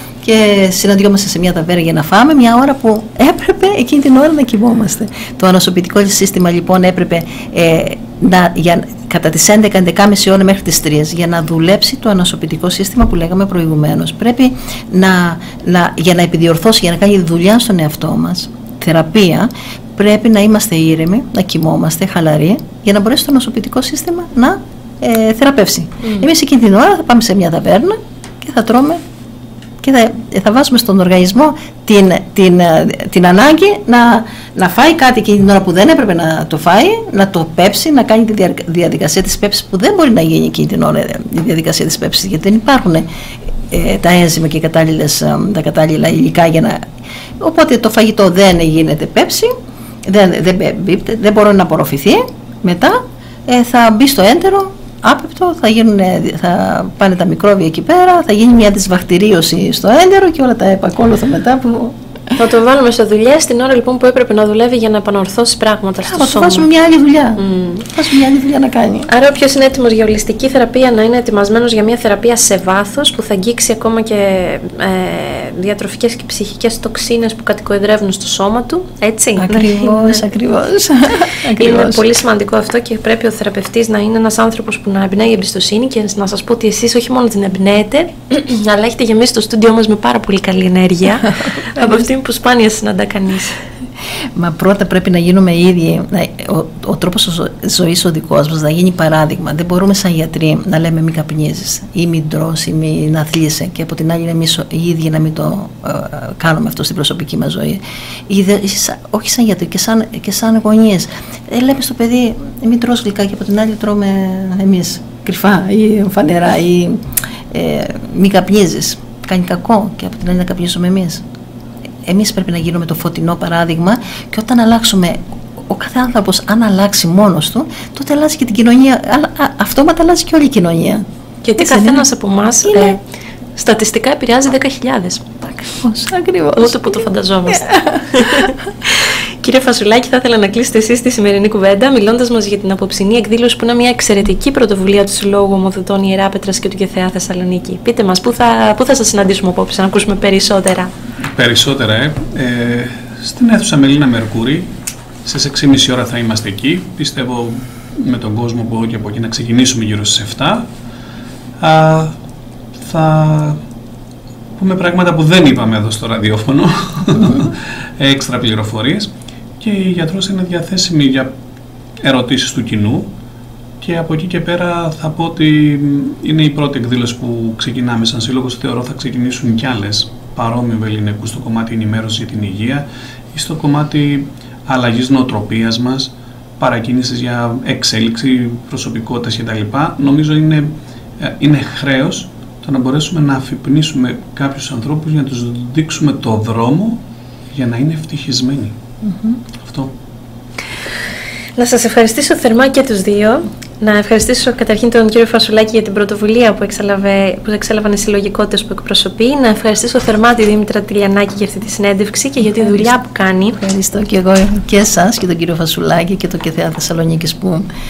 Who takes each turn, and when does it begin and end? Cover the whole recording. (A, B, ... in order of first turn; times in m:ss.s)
0:00.2-0:29.0 A
0:29.8-0:43.0 A
0:43.7-0:46.8 A
0:47.4-1:02.4 A
1:02.4-1:06.7 B
1:06.0-1:09.1 A
1:07.4-1:07.9 B
1:09.1-1:20.2 B
1:19.4-1:22.0 A
1:21.6-1:33.6 B
1:31.3-1:32.0 A
1:34.3-2:01.2 A
2:02.0-2:11.0 A
2:11.4-2:13.0 B
2:11.6-2:12.0 A
2:12.7-2:13.0 A
2:13.6-2:15.3 B
2:15.4-2:18.5 A
2:16.6-2:30.9 B
2:31.3-2:34.7 C
2:35.2-2:40.7 C
2:41.6-2:42.2 C
2:42.8-2:43.6 C
2:44.6-2:51.3 C
2:52.0-2:53.1 C
2:53.8-3:18.8 C
3:19.0-3:19.4 A
3:19.6-3:19.9 C
3:21.6-3:33.6 B
3:32.5-3:32.9 A
3:33.5-3:37.7 A